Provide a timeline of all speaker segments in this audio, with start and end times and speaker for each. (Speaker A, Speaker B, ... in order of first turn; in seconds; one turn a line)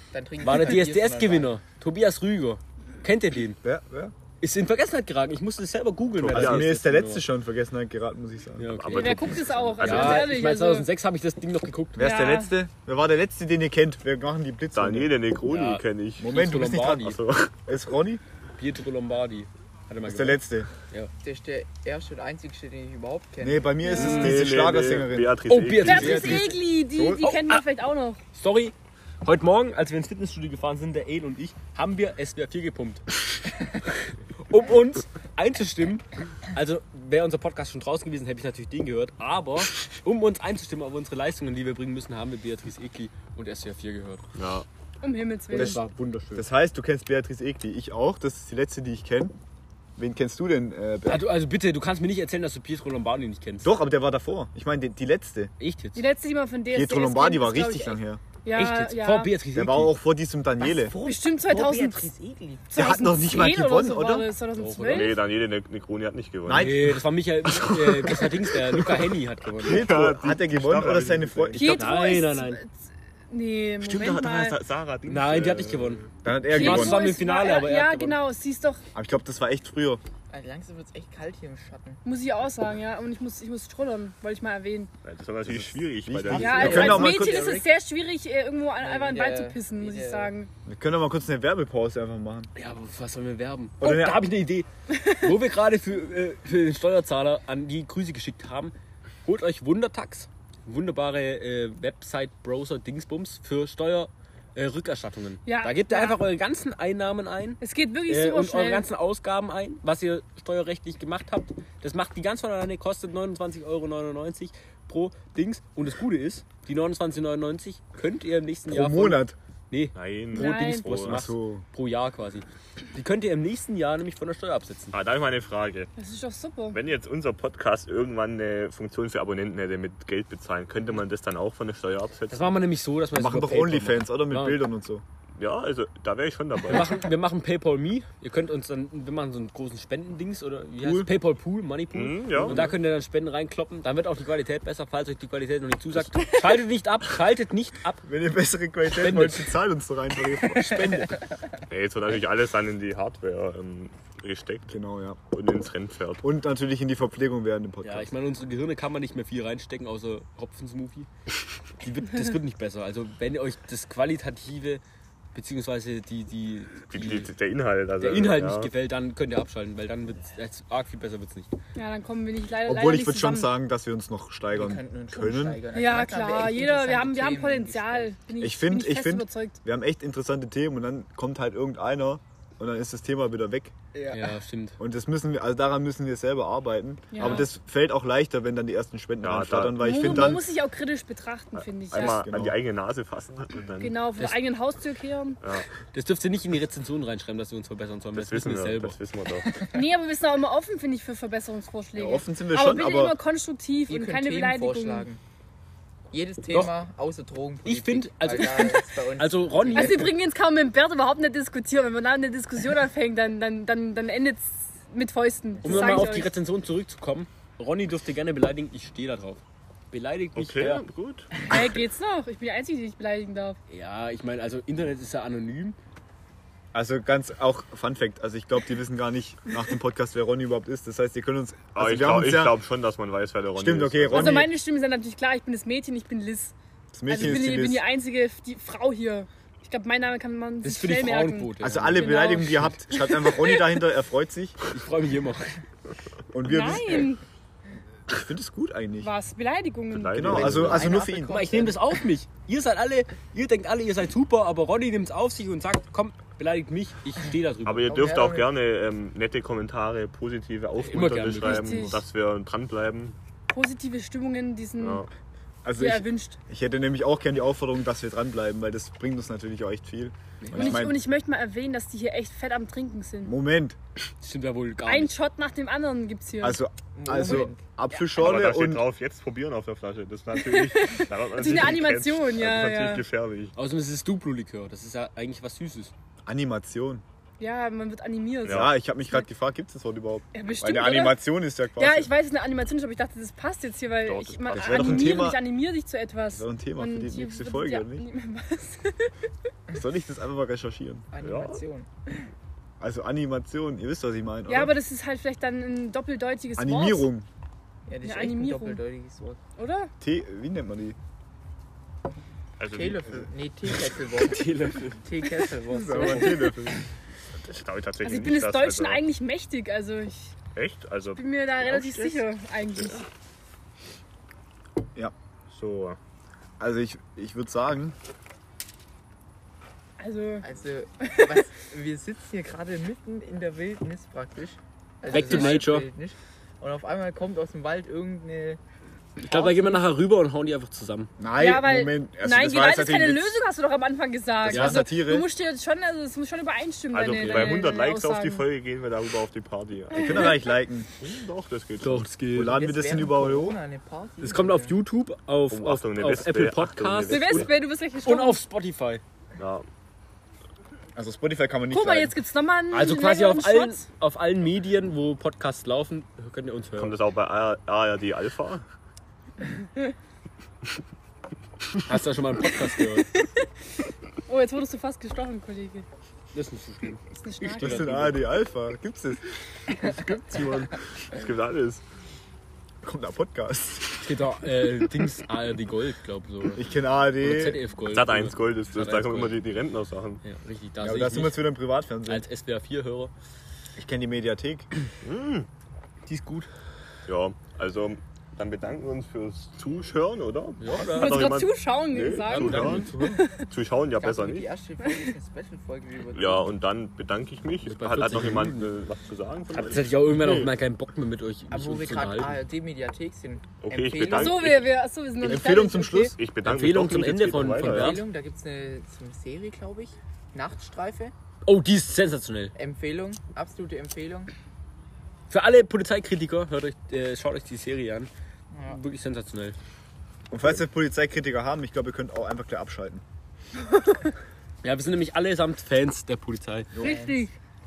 Speaker A: 0.1-1.5
Speaker B: 0.4-3.6
Speaker C: 3.6-4.1
Speaker B: 4.4-7.2
Speaker D: 6.2-6.7
Speaker C: 6.3-8.7
Speaker B: 8.6-12.2
Speaker D: 8.7-10.3
Speaker E: 8.9-10.9
Speaker C: 12.0-15.1
Speaker E: 12.0-12.5
Speaker D: 14.7-17.5
Speaker B: 15.5-17.2
Speaker C: 16.2-18.2
Speaker B: 18.6-21.1
Speaker C: 20.1-20.7
Speaker A: 21.2-23.9
Speaker C: 23.4-27.3
Speaker E: 23.8-24.3
Speaker B: 23.9-24.3
Speaker D: 24.0-26.5
Speaker B: 25.5-26.5
Speaker E: 25.9-28.2
Speaker B: 27.2-27.6
Speaker B: 28.3-33.1
Speaker B: 33.8-44.3
Speaker D: 44.4-44.7
Speaker E: 45.0-45.8
Speaker B: 45.5-46.5
Speaker C: 45.5-45.8
Speaker C: 46.4-49.3
Speaker C: 50.0-51.2
Speaker B: 51.1-53.7
Speaker C: 53.6-55.5
Speaker B: 55.6-56.0
Speaker E: 56.0-59.4
Speaker C: 56.7-58.2
Speaker B: 58.5-60.0
Speaker C: 59.5-60.9
Speaker A: 60.6-62.7
Speaker E: 61.0-62.1
Speaker E: 62.7-65.2
Speaker C: 62.8-64.3
Speaker B: 64.5-65.2
Speaker D: 64.9-66.9
Speaker C: 66.5-67.0
Speaker B: 66.5-69.9
Speaker D: 67.7-68.3
Speaker D: 69.6-71.6
Speaker C: 69.6-71.9
Speaker B: 71.6-72.6
Speaker E: 71.6-74.6
Speaker D: 73.8-76.0
Speaker B: 75.1-78.2
Speaker C: 76.2-77.0
Speaker E: 76.5-78.8
Speaker C: 79.0-80.0
Speaker A: 80.3-82.0
Speaker E: 82.0-84.9
Speaker D: 85.0-87.1
Speaker C: 85.5-87.6
Speaker A: 86.3-87.8
Speaker E: 86.4-90.5
Speaker A: 88.8-90.3
Speaker C: 90.7-92.5
Speaker B: 92.5-124.9
Speaker C: 93.8-94.3
Speaker E: 105.5-106.2
Speaker E: 107.6-108.9
Speaker C: 118.7-119.4
Speaker D: 120.0-121.3
Speaker E: 120.3-120.9
Speaker C: 121.1-121.7
Speaker D: 124.9-125.9
Speaker E: 126.0-126.8
Speaker D: 126.7-132.6
Speaker B: 132.3-134.6
Speaker C: 133.1-135.0
Speaker D: 135.4-137.0
Speaker B: 136.7-148.1
Speaker C: 140.8-141.1
Speaker D: 141.9-142.7
Speaker C: 142.4-142.7
Speaker C: 148.1-151.1
Speaker B: 148.9-149.6
Speaker B: 150.5-151.2
Speaker D: 151.7-154.8
Speaker C: 154.7-155.2
Speaker D: 155.3-156.2
Speaker C: 156.2-158.1
Speaker B: 157.8-161.1
Speaker B: 161.8-164.8
Speaker B: 165.3-167.3
Speaker D: 166.9-168.7
Speaker B: 168.0-171.5
Speaker E: 171.8-173.5
Speaker C: 172.7-175.7
Speaker A: 174.5-178.1
Speaker E: 175.7-179.6
Speaker C: 178.4-183.7
Speaker A: 183.9-184.4
Speaker B: 184.1-184.8
Speaker C: 184.8-190.5
Speaker E: 187.1-187.5
Speaker B: 187.2-187.5
Speaker D: 189.2-190.4
Speaker E: 189.8-192.2
Speaker D: 191.5-194.0
Speaker C: 191.9-192.6
Speaker E: 193.8-195.4
Speaker D: 195.4-195.7
Speaker B: 195.9-199.0
Speaker D: 198.2-199.6
Speaker A: 199.6-199.8
Speaker E: 199.7-205.1
Speaker C: 201.9-203.2
Speaker A: 203.9-205.2
Speaker A: 206.1-210.2
Speaker B: 207.6-210.1
Speaker E: 209.7-216.3
Speaker B: 215.6-220.8
Speaker D: 220.4-221.6
Speaker E: 221.4-223.6
Speaker B: 223.7-225.8
Speaker C: 226.7-232.6
Speaker D: 231.8-234.5
Speaker C: 233.6-234.5
Speaker E: 234.1-236.5
Speaker C: 236.9-237.8
Speaker E: 237.1-243.8
Speaker B: 240.6-242.8
Speaker C: 241.6-244.6
Speaker B: 244.7-245.6
Speaker C: 246.3-247.1
Speaker E: 246.4-247.2
Speaker C: 248.1-249.1
Speaker E: 249.0-251.3
Speaker D: 249.9-251.0
Speaker C: 250.2-251.8
Speaker A: 250.8-252.0
Speaker B: 251.2-258.0
Speaker D: 257.7-263.2
Speaker A: 257.9-258.5
Speaker B: 260.8-262.0
Speaker E: 261.4-262.0
Speaker E: 263.5-265.1
Speaker D: 264.8-265.1
Speaker C: 265.6-271.0
Speaker E: 265.8-266.4
Speaker B: 270.4-270.9
Speaker E: 270.5-273.3
Speaker C: 273.2-273.8
Speaker B: 274.2-275.1
Speaker E: 274.9-276.6
Speaker C: 276.4-278.9
Speaker A: 276.9-277.6
Speaker D: 278.2-283.6
Speaker E: 280.3-283.0
Speaker B: 283.6-285.9
Speaker C: 286.3-287.0
Speaker E: 287.4-289.3
Speaker D: 288.4-288.8
Speaker C: 288.4-292.1
Speaker E: 290.3-291.2
Speaker E: 291.8-299.1
Speaker D: 294.1-295.3
Speaker C: 294.5-295.4
Speaker C: 296.3-298.1
Speaker C: 299.7-301.1
Speaker A: 301.1-302.3
Speaker D: 301.2-301.6
Speaker C: 302.8-304.8
Speaker E: 304.5-307.1
Speaker C: 306.6-307.3
Speaker A: 307.9-309.4
Speaker E: 308.0-308.8
Speaker E: 309.6-309.9
Speaker C: 310.0-311.0
Speaker D: 312.6-313.3
Speaker A: 312.7-316.5
Speaker B: 314.2-315.0
Speaker C: 315.7-316.8
Speaker E: 316.1-316.5
Speaker D: 317.5-319.0
Speaker E: 318.0-320.4
Speaker D: 320.6-321.2
Speaker E: 321.2-323.1
Speaker A: 321.6-322.2
Speaker D: 322.7-323.0
Speaker D: 325.5-326.0
Speaker C: 326.6-328.0
Speaker E: 330.0-330.4
Speaker A: 330.4-338.6
Speaker E: 331.0-331.4
Speaker B: 335.1-335.9
Speaker E: 335.1-335.7
Speaker B: 339.2-341.1
Speaker E: 339.3-339.8
Speaker C: 341.2-343.4
Speaker E: 341.4-348.4
Speaker C: 344.4-345.3
Speaker B: 344.5-344.9
Speaker D: 346.9-350.4
Speaker B: 347.1-347.6
Speaker E: 349.9-350.4
Speaker C: 349.9-350.9
Speaker D: 351.0-352.1
Speaker B: 351.8-352.6
Speaker C: 352.3-353.6
Speaker A: 352.4-354.8
Speaker B: 354.2-357.5
Speaker D: 355.5-357.5
Speaker E: 357.1-358.4
Speaker B: 358.0-359.0
Speaker D: 359.4-359.7
Speaker C: 360.9-362.1
Speaker E: 361.7-363.9
Speaker B: 362.7-367.0
Speaker D: 366.8-368.6
Speaker B: 371.9-373.1
Speaker E: 373.1-373.5
Speaker E: 374.3-375.9
Speaker B: 376.3-378.2
Speaker E: 377.2-378.1
Speaker C: 377.6-379.2
Speaker D: 379.8-381.8
Speaker C: 382.8-384.1
Speaker B: 384.0-386.6
Speaker C: 386.6-387.6
Speaker B: 387.2-389.4
Speaker D: 387.9-390.2
Speaker B: 390.2-391.5
Speaker C: 390.8-392.2
Speaker B: 392.1-393.1
Speaker C: 393.8-394.7
Speaker D: 395.0-395.5
Speaker B: 396.1-396.5
Speaker D: 397.1-404.5
Speaker B: 400.6-401.3
Speaker E: 400.8-403.5
Speaker B: 402.2-403.2
Speaker A: 404.0-406.5
Speaker D: 406.1-410.5
Speaker B: 407.6-408.7
Speaker B: 409.5-412.4
Speaker A: 411.5-414.6
Speaker D: 413.6-418.1
Speaker E: 414.1-416.2
Speaker C: 415.2-416.1
Speaker B: 416.4-418.1
Speaker A: 417.6-421.1
Speaker B: 421.4-422.5
Speaker A: 422.6-424.3
Speaker B: 425.3-428.1
Speaker A: 428.5-428.8
Speaker B: 428.7-429.6
Speaker C: 430.3-433.0
Speaker B: 434.6-436.8
Speaker E: 436.8-437.3
Speaker A: 436.8-437.2